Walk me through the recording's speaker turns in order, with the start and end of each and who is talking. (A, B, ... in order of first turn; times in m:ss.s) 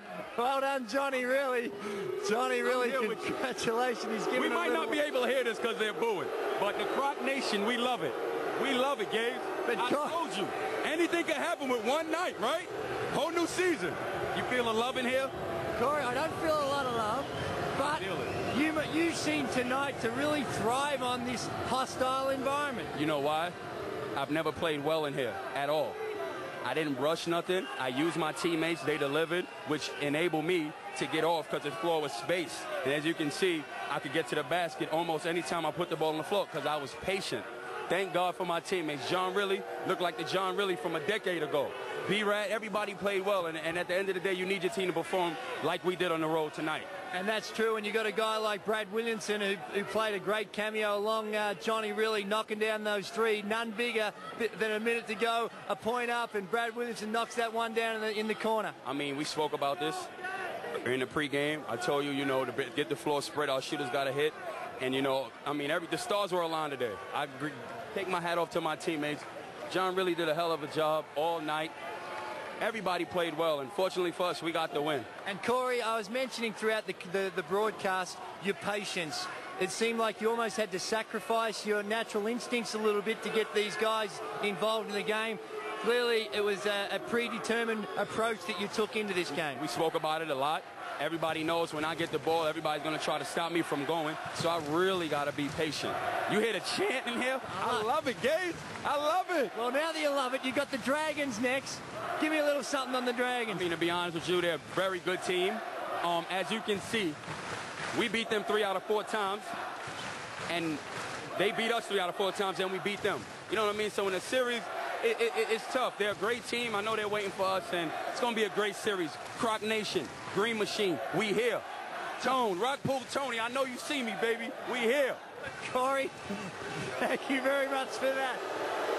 0:00.4-0:05.0 A
0:02.6-0:03.3 B
0:04.3-0:15.3 B
0:09.6-0:10.2 A
0:15.7-0:22.9 A
0:17.9-0:18.4 B
0:22.9-0:23.5 B
0:24.1-0:26.0 B
0:26.6-0:46.9 B
0:47.1-0:58.8 A
0:58.8-1:00.1 B
1:00.8-1:11.7 B
1:12.6-1:15.1 B
1:15.2-1:29.6 A
1:29.3-1:39.5 B
1:37.5-1:37.9 A
1:39.5-1:43.6 A
1:43.5-1:47.2 B
1:47.9-1:49.5 B
1:50.5-1:50.8 B
1:51.4-2:01.6 B
2:02.2-2:05.2 B
2:05.6-2:08.4 A